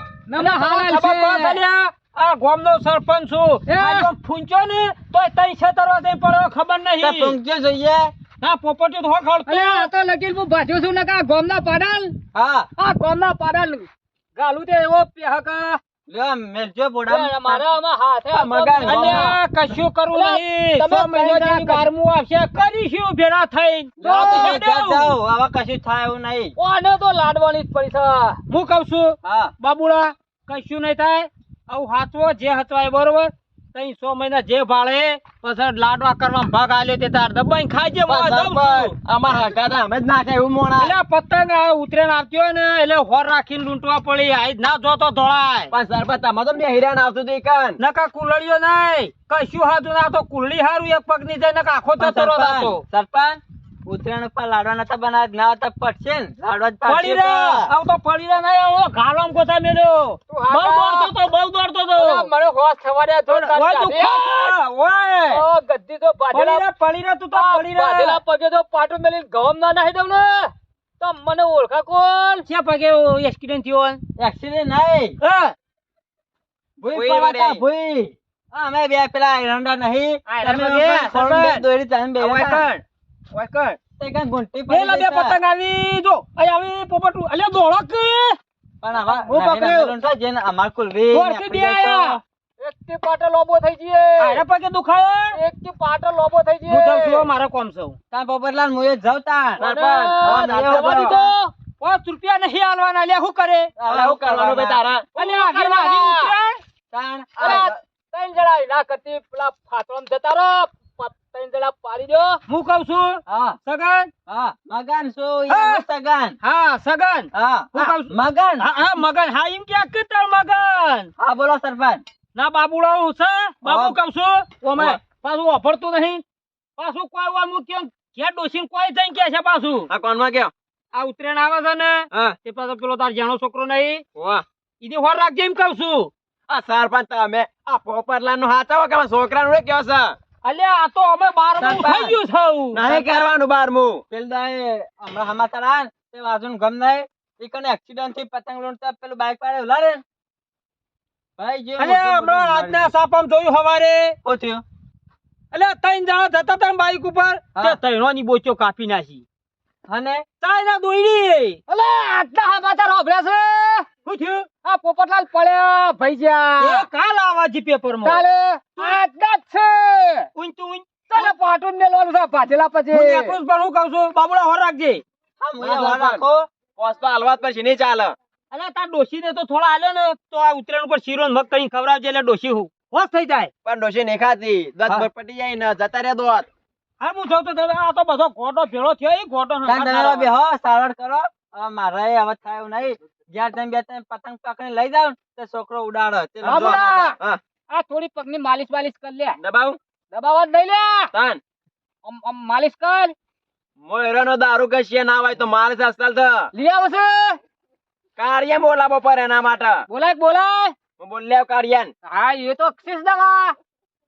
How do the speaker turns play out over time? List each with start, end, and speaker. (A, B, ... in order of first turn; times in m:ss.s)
0:00.3-0:01.5 A
0:00.4-0:07.4 B
0:03.7-0:04.0 A
0:07.0-0:08.1 C
0:08.4-0:09.9 B
0:09.5-0:12.2 A
0:12.3-0:12.7 C
0:12.8-0:15.8 A
0:16.1-0:17.7 C
0:17.1-0:19.4 A
0:18.3-0:19.4 D
0:18.8-0:25.2 B
0:20.1-0:21.9 A
0:24.0-0:24.3 D
0:24.0-0:26.5 C
0:26.6-0:28.4 A
0:28.5-0:38.9 B
0:29.2-0:29.5 C
0:38.1-0:41.0 D
0:40.8-0:45.7 B
0:45.7-0:47.8 D
0:47.8-0:52.8 B
0:52.0-0:57.7 C
0:56.8-1:02.3 B
1:00.3-1:01.1 A
1:01.9-1:04.6 A
1:03.3-1:05.4 B
1:05.3-1:06.7 A
1:06.3-1:08.2 B
1:07.3-1:12.4 A
1:12.4-1:14.0 B
1:14.2-1:15.2 C
1:15.2-1:15.6 B
1:16.8-1:17.6 D
1:16.8-1:22.7 C
1:20.3-1:21.6 B
1:22.2-1:23.8 D
1:24.0-1:25.4 C
1:24.7-1:28.4 B
1:28.8-1:32.2 C
1:29.2-1:29.9 B
1:31.1-1:32.2 B
1:32.6-1:34.4 A
1:34.2-1:35.4 B
1:35.4-1:37.3 A
1:36.7-1:38.0 B
1:38.1-1:39.7 C
1:39.6-1:41.2 D
1:39.8-1:40.2 A
1:40.0-1:43.7 B
1:40.2-1:41.2 C
1:43.8-1:44.8 C
1:43.9-1:45.1 D
1:45.2-1:46.6 B
1:45.2-1:46.4 A
1:46.9-1:47.7 C
1:47.4-1:52.4 A
1:47.4-1:47.7 B
1:52.5-1:54.1 B
1:53.3-1:53.6 C
1:54.3-1:56.4 C
1:55.5-1:55.8 B
1:56.4-2:01.1 B
1:57.3-1:58.7 C
2:01.2-2:02.0 C
2:02.4-2:06.2 B
2:03.6-2:04.0 C
2:06.8-2:09.9 B
2:09.9-2:10.5 D
2:10.9-2:14.0 B
2:14.2-2:14.4 D
2:14.8-2:16.1 B
2:16.5-2:20.2 D
2:20.4-2:22.9 B
2:21.6-2:22.2 C
2:22.7-2:24.0 D
2:22.9-2:23.2 C
2:24.1-2:30.0 C
2:31.4-2:32.9 C
2:31.8-2:34.2 B
2:34.2-2:34.6 C
2:35.5-2:39.2 B
2:39.9-2:40.2 C
2:40.4-2:41.6 B
2:41.7-2:43.9 A
2:44.0-2:44.5 B
2:44.6-2:46.9 A
2:46.6-2:48.2 B
2:48.0-2:50.3 A
2:50.4-2:51.3 B
2:51.1-2:53.4 A
2:52.9-2:55.0 B
2:55.4-2:56.5 C
2:55.6-2:56.2 D
2:56.8-2:58.2 D
2:58.5-3:03.5 B
3:03.6-3:06.5 D
3:07.0-3:10.3 B
3:09.6-3:17.1 C
3:16.4-3:17.4 D
3:16.5-3:17.1 A
3:17.7-3:19.4 A
3:19.4-3:19.8 D
3:20.1-3:21.1 A
3:21.1-3:21.4 D
3:22.0-3:23.2 A
3:23.8-3:26.5 D
3:26.6-3:27.4 A
3:28.2-3:29.9 D
3:29.9-3:30.8 A
3:31.0-3:31.9 D
3:32.1-3:33.6 A